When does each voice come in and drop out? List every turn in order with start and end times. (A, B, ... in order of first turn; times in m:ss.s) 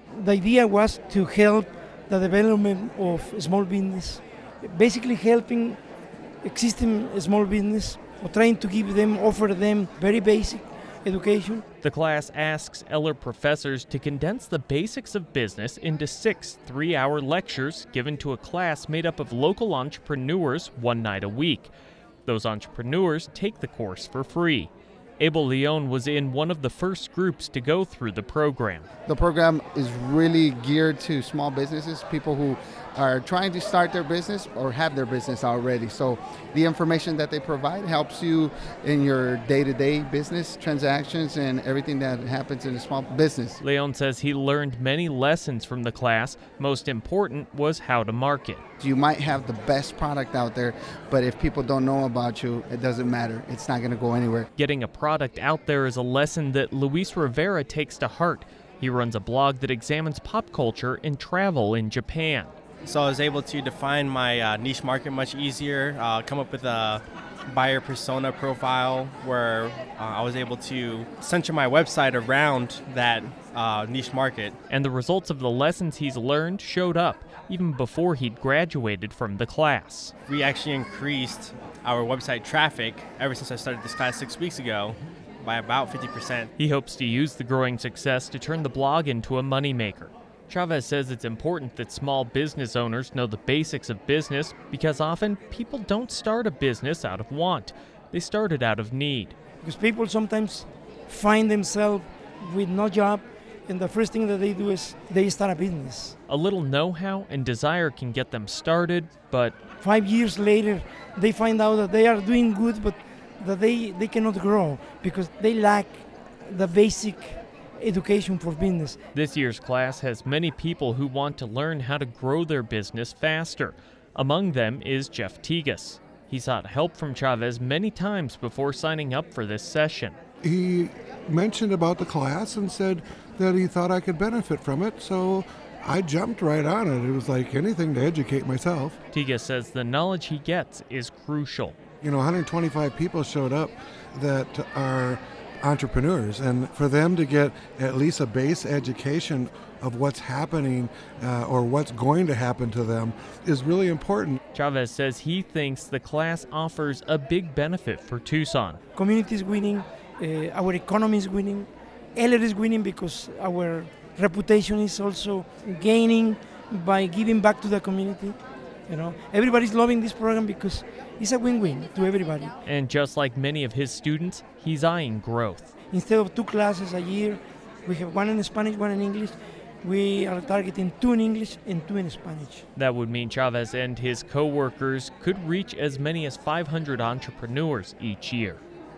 0:00.1-0:05.8 A
0:06.4-0:11.6 A
0:11.8-0:21.7 B
0:22.2-0:28.9 B
0:29.1-0:43.6 C
0:43.6-0:48.6 B
0:48.8-0:54.5 C
0:54.6-1:02.5 B
1:02.8-1:14.5 D
1:14.7-1:20.1 B
1:20.3-1:26.5 D
1:26.6-1:39.3 B
1:39.6-1:46.1 A
1:46.3-1:49.5 B
1:49.8-1:59.0 A
1:59.1-2:10.2 B
2:10.4-2:19.0 E
2:19.1-2:21.8 B
2:22.0-2:34.4 E
2:34.5-2:38.8 B
2:38.9-2:48.4 A
2:48.9-2:52.5 A
2:52.6-2:55.7 B
2:55.9-3:02.6 A
3:02.8-3:08.6 B